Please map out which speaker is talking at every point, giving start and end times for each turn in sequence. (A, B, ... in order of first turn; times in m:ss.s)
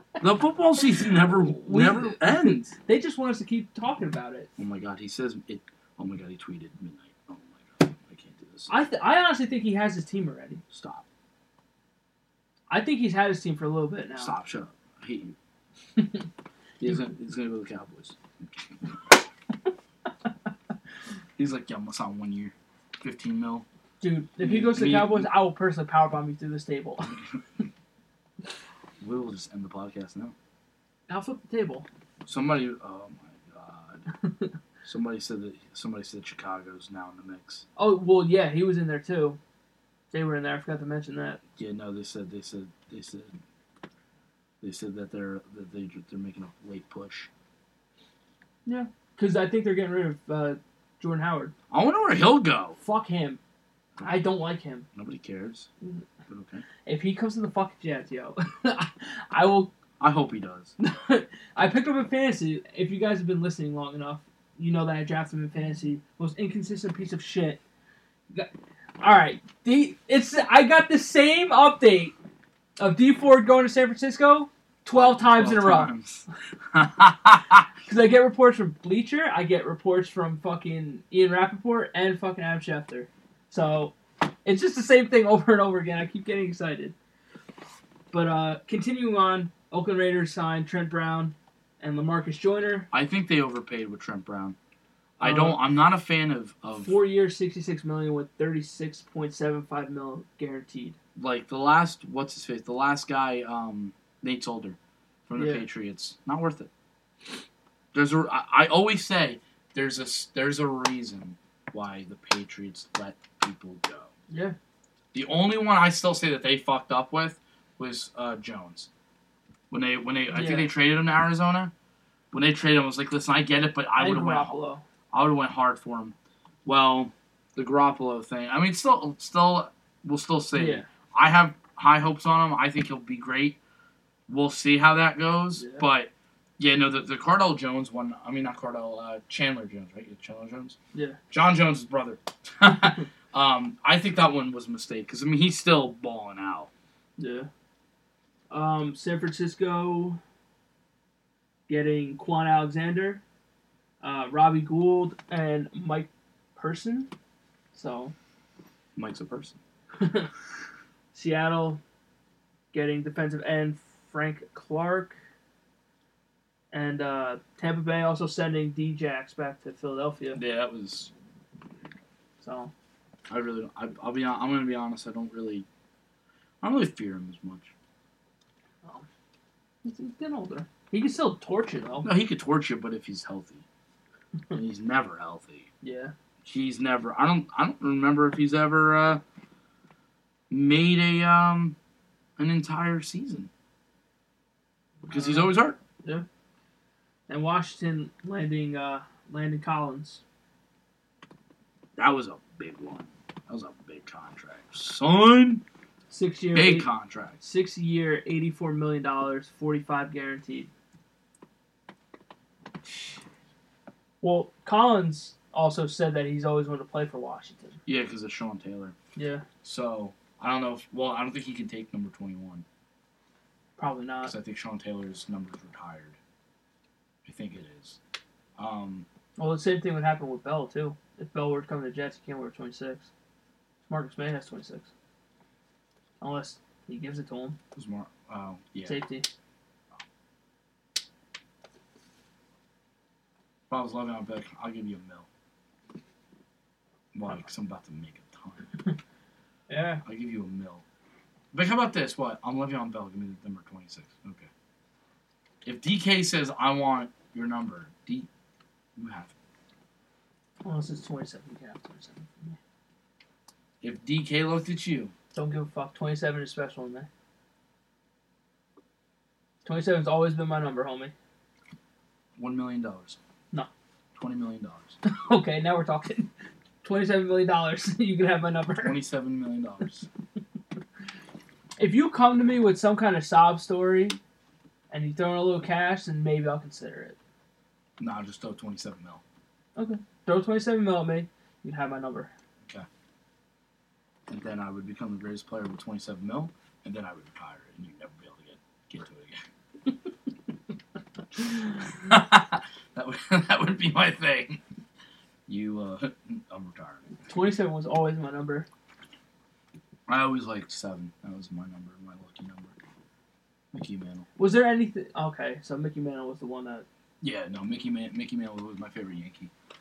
0:00.2-0:02.7 A
0:01.0-0:04.5 B
0:04.6-0:08.7 A
0:08.7-0:10.6 B
0:10.7-0:11.0 A
0:12.7-0:14.3 B
0:14.2-0:15.3 A
0:16.0-0:16.2 B
0:16.8-0:18.7 A
0:21.4-0:23.6 A
0:24.0-0:27.1 B
0:24.4-0:25.3 A
0:29.0-0:30.3 A
0:31.1-0:31.9 B
0:32.2-0:34.0 A
0:34.8-0:37.6 A
0:37.8-0:39.4 B
0:40.1-0:41.4 B
0:41.6-0:43.4 A
0:44.6-0:47.3 A
0:48.6-0:51.5 B
0:51.7-0:52.8 A
0:52.8-0:53.4 B
0:54.0-0:54.3 A
0:54.0-0:54.8 B
0:54.9-0:55.7 A
0:56.3-0:56.6 A
0:56.8-0:59.7 B
1:00.0-1:00.7 A
1:00.8-1:07.6 B
1:09.0-1:12.1 B
1:12.8-1:15.9 B
1:14.9-1:17.7 A
1:17.8-1:26.9 B
1:28.1-1:32.9 B
1:32.9-1:34.6 A
1:35.2-1:37.0 A
1:35.2-1:35.6 B
1:36.8-1:41.0 B
1:41.2-1:46.7 A
1:45.3-1:45.6 B
1:47.9-1:54.1 A
1:54.3-1:54.6 B
1:55.1-1:58.9 A
1:59.7-2:01.7 A
2:00.3-2:00.7 B
2:02.3-2:04.6 A
2:04.0-2:04.8 B
2:05.1-2:13.6 A
2:10.5-2:10.9 B
2:14.3-2:20.8 A
2:15.6-2:15.8 B
2:21.3-2:26.7 A
2:27.2-2:27.5 B
2:28.5-2:30.2 B
2:31.7-2:33.2 B
2:34.0-2:37.1 B
2:37.7-2:38.1 B
2:39.0-2:39.6 A
2:40.0-2:40.3 B
2:41.1-2:41.8 B
2:42.7-2:45.2 B
2:46.7-2:50.4 B
2:50.3-2:51.1 A
2:52.4-2:52.7 B
2:53.3-2:55.6 A
2:56.6-2:57.7 A
2:59.8-3:02.1 B
3:02.0-3:03.6 A
3:04.5-3:05.7 A
3:05.8-3:06.1 B
3:06.4-3:09.2 A
3:10.5-3:11.8 A
3:12.4-3:13.5 A
3:15.0-3:16.2 B
3:15.1-3:15.8 A
3:17.3-3:20.2 B
3:22.0-3:25.6 A
3:26.1-3:30.7 B
3:26.5-3:27.4 A
3:34.2-3:37.8 B
3:37.8-3:38.9 A
3:39.1-3:39.4 B
3:39.6-3:42.6 A
3:43.8-3:44.3 B
3:44.2-3:46.2 A
3:47.2-3:48.0 A
3:48.6-3:49.0 A
3:49.4-3:53.1 B
3:53.9-3:54.9 B
3:56.2-3:57.6 B
3:57.7-3:59.0 A
3:58.8-3:59.3 B
4:03.7-4:05.2 A
4:07.1-4:08.6 A
4:09.7-4:10.0 B
4:10.0-4:10.8 A
4:11.5-4:14.5 A
4:15.6-4:18.3 A
4:19.0-4:19.3 A
4:20.6-4:22.6 B
4:23.8-4:25.1 A
4:25.3-4:27.1 B
4:29.6-4:31.1 B
4:32.4-4:33.2 A
4:34.1-4:35.0 A
4:35.0-4:36.3 B
4:36.8-4:39.0 B
4:38.8-4:40.0 A
4:41.8-4:44.2 B
4:44.9-4:47.2 B
4:48.0-4:49.2 A
4:49.8-4:52.3 B
4:54.3-4:59.4 A
5:01.4-5:04.6 A
5:05.5-5:07.1 A
5:07.3-5:08.7 B
5:10.1-5:12.7 A
5:13.7-5:14.2 A
5:14.4-5:16.8 B
5:17.2-5:19.5 A